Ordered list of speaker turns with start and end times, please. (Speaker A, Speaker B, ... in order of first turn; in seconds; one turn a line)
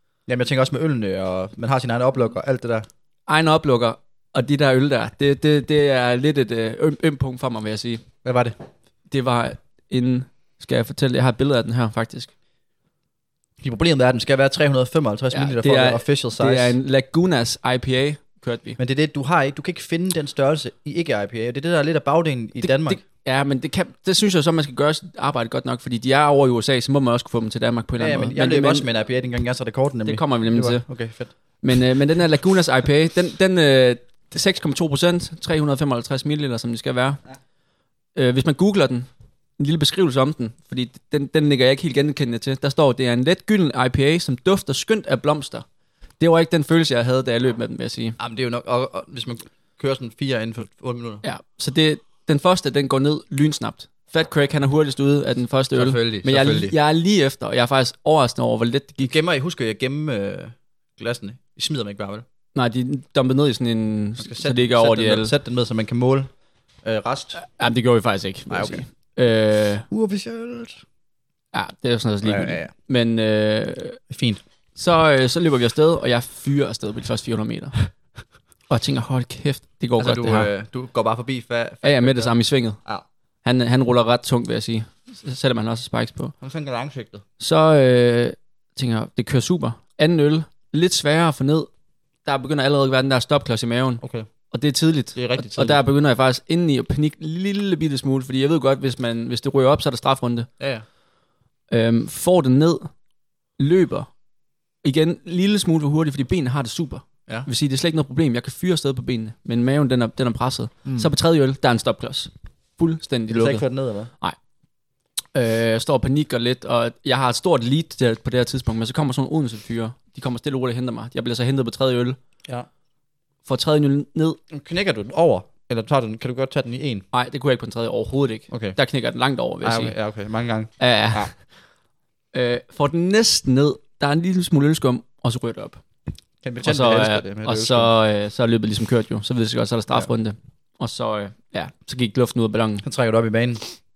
Speaker A: 0.3-2.9
Speaker B: 3.3-8.0
Speaker A: 8.2-8.6
Speaker B: 9.1-12.3
Speaker A: 13.6-16.8
Speaker B: 15.3-18.8
Speaker A: 18.8-23.0
Speaker B: 22.6-28.9
Speaker A: 28.0-31.3
Speaker B: 30.0-30.9
Speaker B: 31.6-37.2
Speaker B: 38.1-45.6
Speaker B: 46.2-48.2
Speaker A: 48.2-51.2
Speaker B: 51.2-59.1
Speaker A: 55.7-56.7
Speaker A: 59.0-62.2
Speaker B: 62.5-65.3
Speaker A: 64.2-66.3
Speaker A: 66.8-67.4
Speaker B: 67.3-69.8
Speaker A: 68.5-68.8
Speaker A: 69.9-70.8
Speaker B: 71.5-74.0
Speaker A: 72.2-72.7
Speaker A: 74.1-74.4
Speaker B: 74.7-77.8
Speaker B: 78.7-80.5
Speaker A: 80.0-83.0
Speaker B: 81.8-82.8
Speaker B: 83.4-86.3
Speaker A: 86.4-87.2
Speaker B: 87.4-91.7
Speaker B: 92.2-100.5
Speaker A: 94.0-94.3
Speaker A: 95.1-95.8
Speaker A: 100.6-100.8
Speaker B: 101.7-102.9
Speaker B: 103.6-104.1
Speaker B: 104.8-113.6
Speaker A: 110.8-111.1
Speaker A: 113.3-114.1
Speaker B: 115.3-122.2
Speaker B: 123.4-124.4
Speaker A: 124.5-127.0
Speaker B: 127.1-129.9
Speaker A: 128.5-128.8
Speaker A: 129.6-131.3
Speaker B: 130.8-131.4
Speaker B: 132.3-135.8
Speaker A: 136.4-137.9
Speaker B: 136.6-142.8
Speaker A: 142.8-143.6